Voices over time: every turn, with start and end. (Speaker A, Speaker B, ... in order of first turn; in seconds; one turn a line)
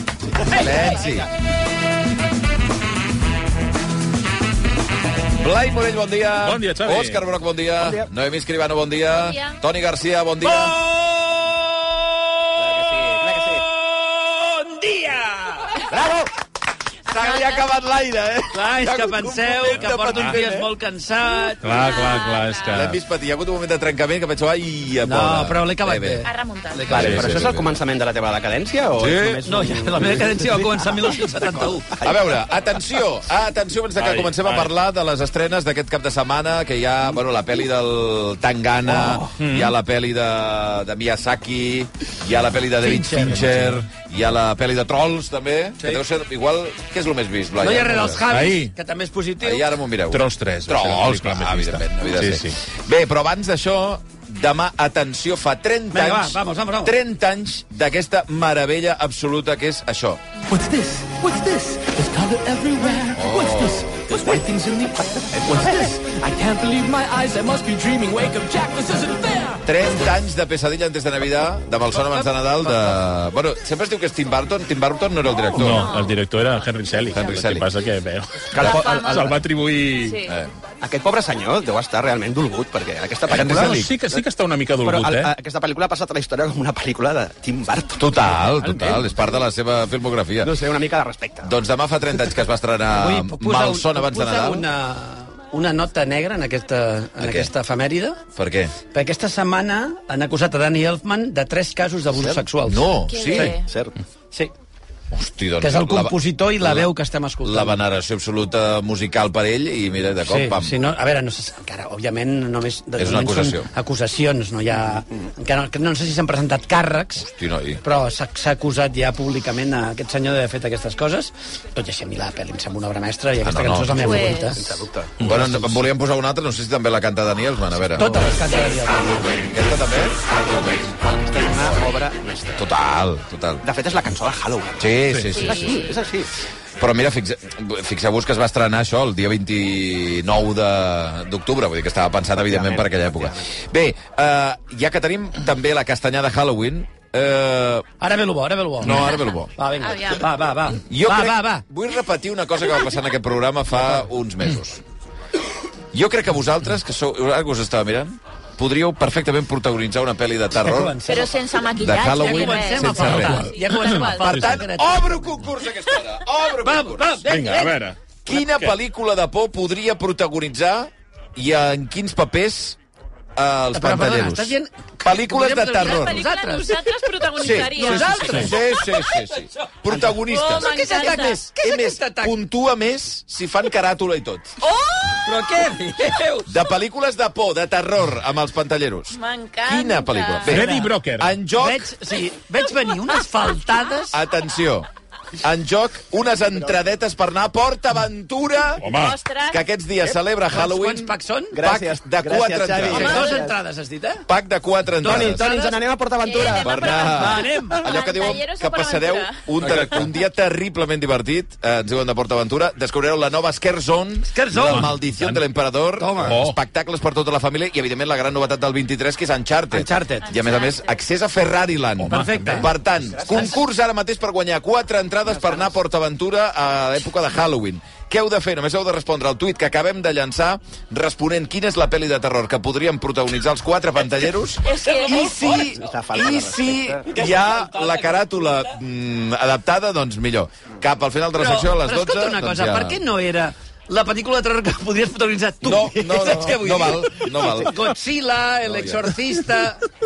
Speaker A: 0.3-1.3
Speaker B: 0.5-1.3
Speaker C: 0.5-0.8
Speaker B: 5.4-10.7
Speaker D: 6.4-7.2
Speaker A: 7.8-8.1
Speaker E: 9.1-9.6
Speaker A: 12.6-13.6
Speaker A: 15.9-16.3
Speaker B: 17.1-20.7
Speaker E: 17.1-17.7
Speaker C: 18.5-21.7
Speaker D: 20.1-20.4
Speaker D: 21.6-23.0
Speaker E: 21.7-22.9
Speaker B: 22.7-26.2
Speaker C: 25.0-27.2
Speaker E: 26.2-26.9
Speaker B: 26.9-27.8
Speaker A: 26.9-32.2
Speaker D: 26.9-27.4
Speaker B: 29.0-29.4
Speaker C: 29.5-31.9
Speaker B: 32.0-48.2
Speaker D: 34.0-34.7
Speaker C: 38.9-39.3
Speaker D: 39.4-39.7
Speaker C: 42.8-43.8
Speaker C: 47.6-49.6
Speaker D: 48.2-48.7
Speaker B: 49.4-60.2
Speaker D: 50.1-52.6
Speaker C: 55.9-57.0
Speaker F: 60.7-63.1
Speaker B: 63.1-63.9
Speaker F: 66.3-69.2
Speaker B: 69.6-75.9
Speaker D: 75.5-80.2
Speaker E: 75.8-76.2
Speaker B: 77.1-77.7
Speaker A: 78.5-79.4
Speaker E: 78.6-79.3
Speaker E: 80.0-80.3
Speaker B: 80.3-80.5
Speaker A: 80.8-84.2
Speaker B: 83.3-83.9
Speaker D: 83.3-85.3
Speaker A: 84.8-88.1
Speaker B: 88.0-90.5
Speaker A: 88.6-89.1
Speaker A: 90.4-91.5
Speaker B: 91.4-94.7
Speaker C: 92.9-98.2
Speaker B: 97.2-97.5
Speaker B: 98.3-98.7
Speaker C: 98.9-102.9
Speaker B: 102.2-103.6
Speaker E: 103.1-103.7
Speaker A: 103.7-103.9
Speaker B: 105.1-106.9
Speaker C: 105.6-107.8
Speaker B: 107.4-110.8
Speaker C: 110.2-117.3
Speaker B: 113.0-113.7
Speaker B: 117.2-117.8
Speaker C: 117.8-124.6
Speaker B: 123.4-124.2
Speaker E: 123.9-124.6
Speaker A: 124.5-125.1
Speaker B: 125.2-128.4
Speaker C: 125.3-125.8
Speaker C: 128.0-129.4
Speaker B: 129.2-130.2
Speaker A: 130.5-132.2
Speaker B: 132.5-133.6
Speaker A: 133.6-134.9
Speaker B: 134.8-135.9
Speaker D: 135.1-135.3
Speaker E: 135.3-136.0
Speaker A: 135.4-136.3
Speaker B: 136.8-147.8
Speaker A: 142.4-143.5
Speaker C: 148.0-151.6
Speaker B: 148.8-149.5
Speaker E: 149.8-150.3
Speaker B: 150.9-154.8
Speaker B: 155.9-161.0
Speaker C: 160.6-161.3
Speaker E: 161.0-164.6
Speaker B: 161.8-163.5
Speaker C: 162.1-165.4
Speaker D: 163.0-164.6
Speaker B: 164.3-167.3
Speaker C: 166.6-167.8
Speaker D: 167.2-168.7
Speaker B: 168.2-172.8
Speaker B: 173.3-176.2
Speaker C: 173.7-176.8
Speaker E: 175.6-178.5
Speaker B: 177.4-180.7
Speaker C: 177.6-178.6
Speaker C: 179.9-182.4
Speaker E: 180.2-181.5
Speaker B: 181.6-184.5
Speaker E: 184.6-185.3
Speaker C: 185.2-186.5
Speaker B: 186.4-191.9
Speaker E: 189.1-190.6
Speaker D: 190.4-191.3
Speaker C: 190.6-190.9
Speaker C: 191.6-194.2
Speaker B: 194.1-194.9
Speaker B: 195.4-198.9
Speaker E: 198.8-199.6
Speaker D: 198.8-199.2
Speaker B: 199.5-203.3
Speaker C: 200.5-201.6
Speaker A: 201.5-203.6
Speaker C: 202.9-204.2
Speaker B: 204.3-205.5
Speaker A: 205.0-207.1
Speaker C: 205.0-205.6
Speaker E: 205.4-209.5
Speaker B: 206.4-243.0
Speaker C: 207.1-207.8
Speaker D: 209.6-210.0
Speaker C: 214.3-214.9
Speaker D: 214.5-215.4
Speaker C: 216.0-216.4
Speaker D: 216.2-216.6
Speaker C: 219.7-220.3
Speaker E: 220.2-221.0
Speaker D: 222.0-222.7
Speaker C: 222.1-222.7
Speaker A: 223.2-223.5
Speaker E: 234.6-235.6
Speaker A: 235.2-237.1
Speaker C: 241.4-249.8
Speaker B: 245.6-247.9
Speaker B: 248.7-249.1